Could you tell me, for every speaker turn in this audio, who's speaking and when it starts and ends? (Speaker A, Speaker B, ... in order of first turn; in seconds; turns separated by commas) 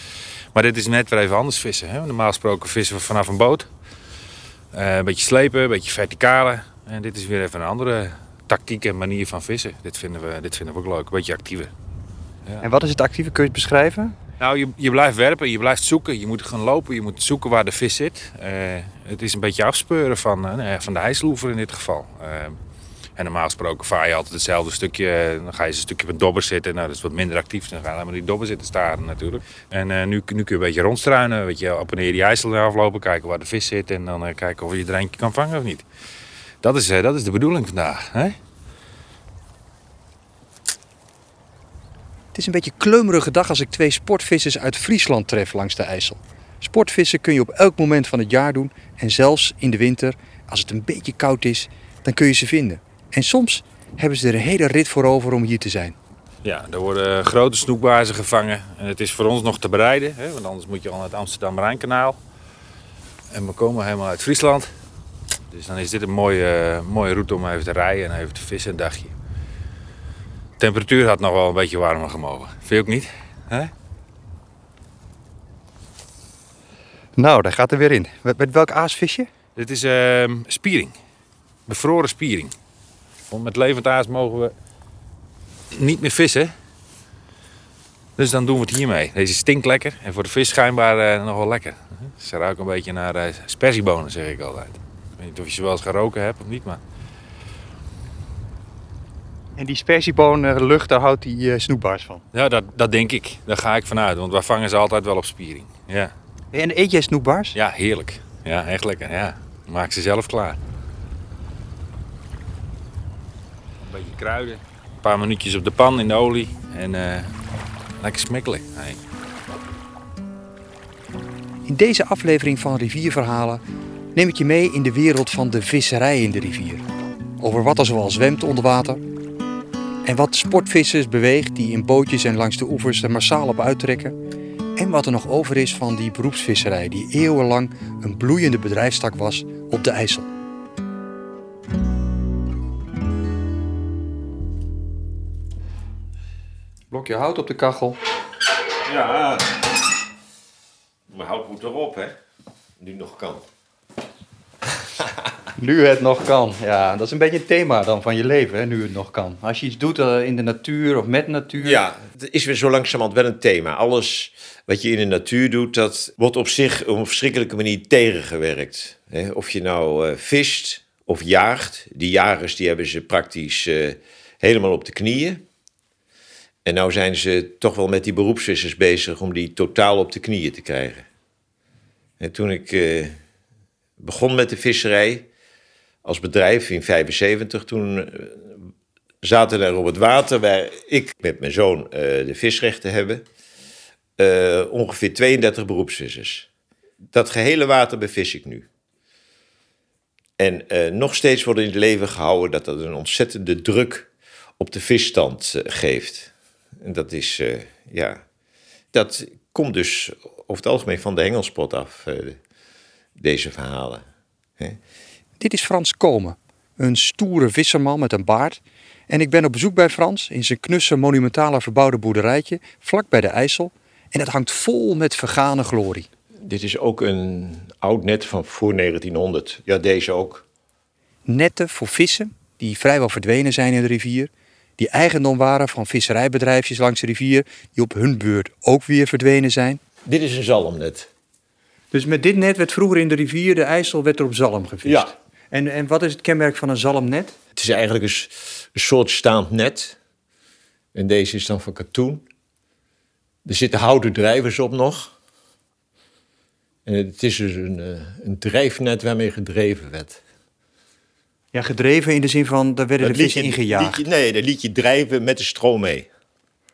Speaker A: 0.5-3.7, Speaker A: 4.7-11.7, Speaker B: 12.6-14.2, Speaker A: 14.4-22.6, Speaker A: 23.2-35.9, Speaker A: 36.6-38.4, Speaker B: 42.3-56.0, Speaker A: 56.4-62.2, Speaker A: 63.3-64.7, Speaker A: 65.5-69.1, Speaker A: 70.6-73.7, Speaker B: 77.2-79.3, Speaker A: 79.6-81.0, Speaker A: 81.7-82.5, Speaker A: 83.3-84.5, Speaker A: 85.7-86.6, Speaker A: 88.2-96.8, Speaker B: 99.6-102.2, Speaker A: 102.3-106.1, Speaker B: 106.5-107.6, Speaker A: 107.5-110.6, Speaker A: 113.8-117.3, Speaker A: 118.0-119.0, Speaker B: 121.7-123.6, Speaker B: 124.2-126.9, Speaker B: 127.4-129.0, Speaker B: 130.1-134.2, Speaker B: 134.8-140.3, Speaker B: 146.9-148.0, Speaker C: 148.8-149.6, Speaker C: 151.1-152.2, Speaker C: 152.8-153.4, Speaker B: 155.6-161.8, Speaker C: 161.6-175.4, Speaker C: 176.7-181.1, Speaker C: 182.2-183.2, Speaker C: 184.0-185.3, Speaker C: 186.0-188.5, Speaker C: 189.2-193.2, Speaker C: 194.2-196.5, Speaker C: 197.1-198.7, Speaker C: 200.4-204.1, Speaker C: 204.6-208.2, Speaker C: 208.9-212.4, Speaker C: 213.2-214.0, Speaker B: 215.4-226.1, Speaker C: 226.4-230.4, Speaker B: 231.3-239.8, Speaker C: 240.1-241.1, Speaker B: 241.9-247.4, Speaker C: 244.8-245.1, Speaker C: 247.6-250.0, Speaker C: 250.9-252.2, Speaker C: 253.4-255.1, Speaker C: 256.9-260.2, Speaker B: 261.5-264.0, Speaker C: 263.0-266.1